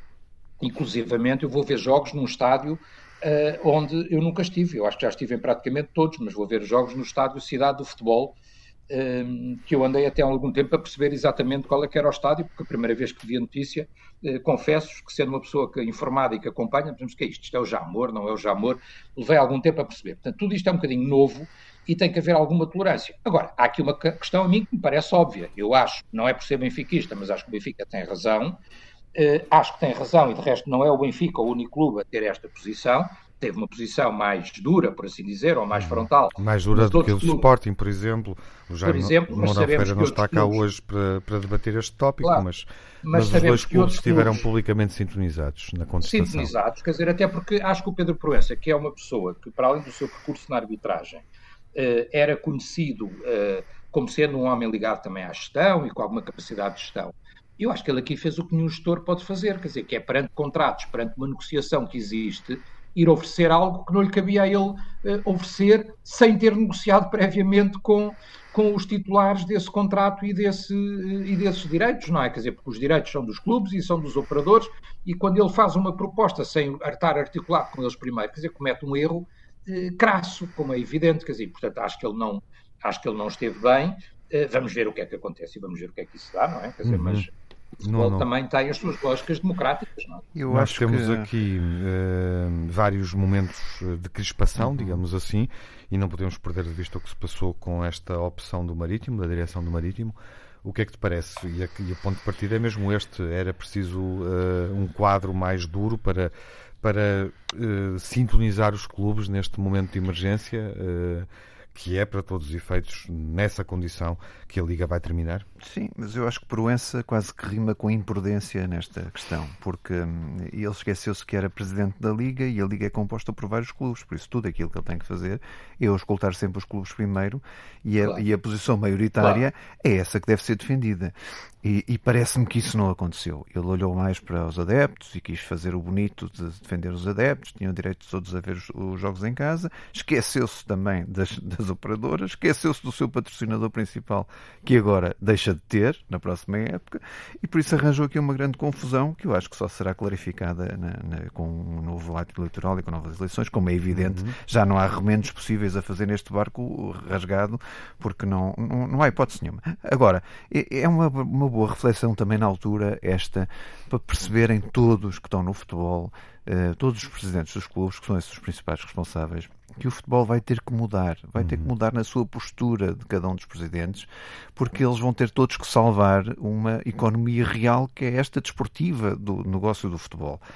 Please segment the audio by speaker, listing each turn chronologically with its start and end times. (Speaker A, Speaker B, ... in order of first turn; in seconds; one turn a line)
Speaker A: 0.6-8.4
Speaker A: 8.9-28.6
Speaker A: 29.1-37.5
Speaker B: 35.7-46.5
Speaker A: 38.9-40.6
Speaker A: 43.0-44.5
Speaker A: 46.0-90.3
Speaker B: 86.8-87.2
Speaker B: 87.8-88.3
Speaker C: 90.3-91.3
Speaker B: 90.5-115.5
Speaker C: 94.6-95.0
Speaker C: 115.6-180.4
Speaker B: 153.9-154.4
Speaker B: 171.4-171.7